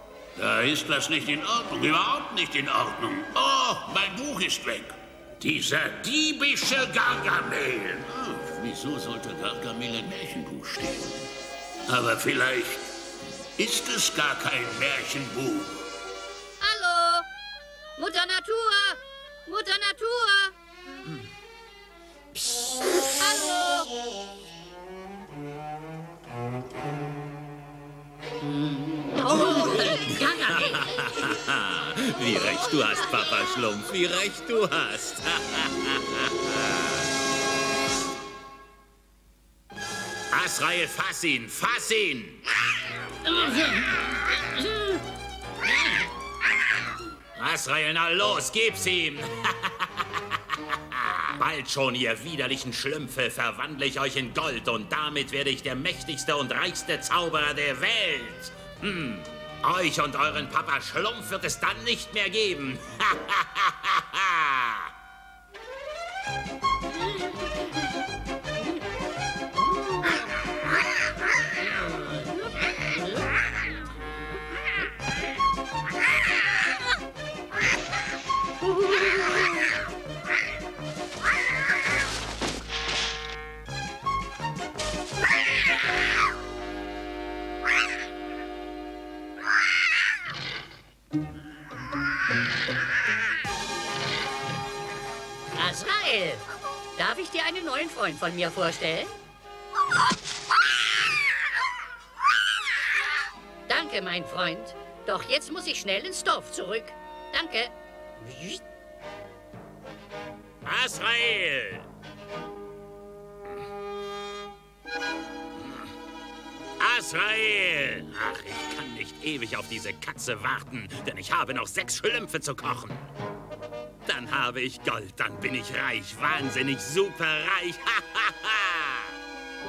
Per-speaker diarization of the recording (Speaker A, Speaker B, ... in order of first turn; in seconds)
Speaker A: 0.3-11.3, 11.9-12.9, 13.6-15.8
Speaker B: 16.6-17.3, 18.0-20.5, 23.2-23.9, 28.4-31.3, 43.2-45.0, 95.5-96.4, 97.0-99.2, 103.7-108.6
Speaker C: 29.4-37.0, 40.3-42.4, 47.4-50.0, 50.9-64.9, 110.6-111.8, 115.6-115.9, 116.8-123.1, 124.0-129.1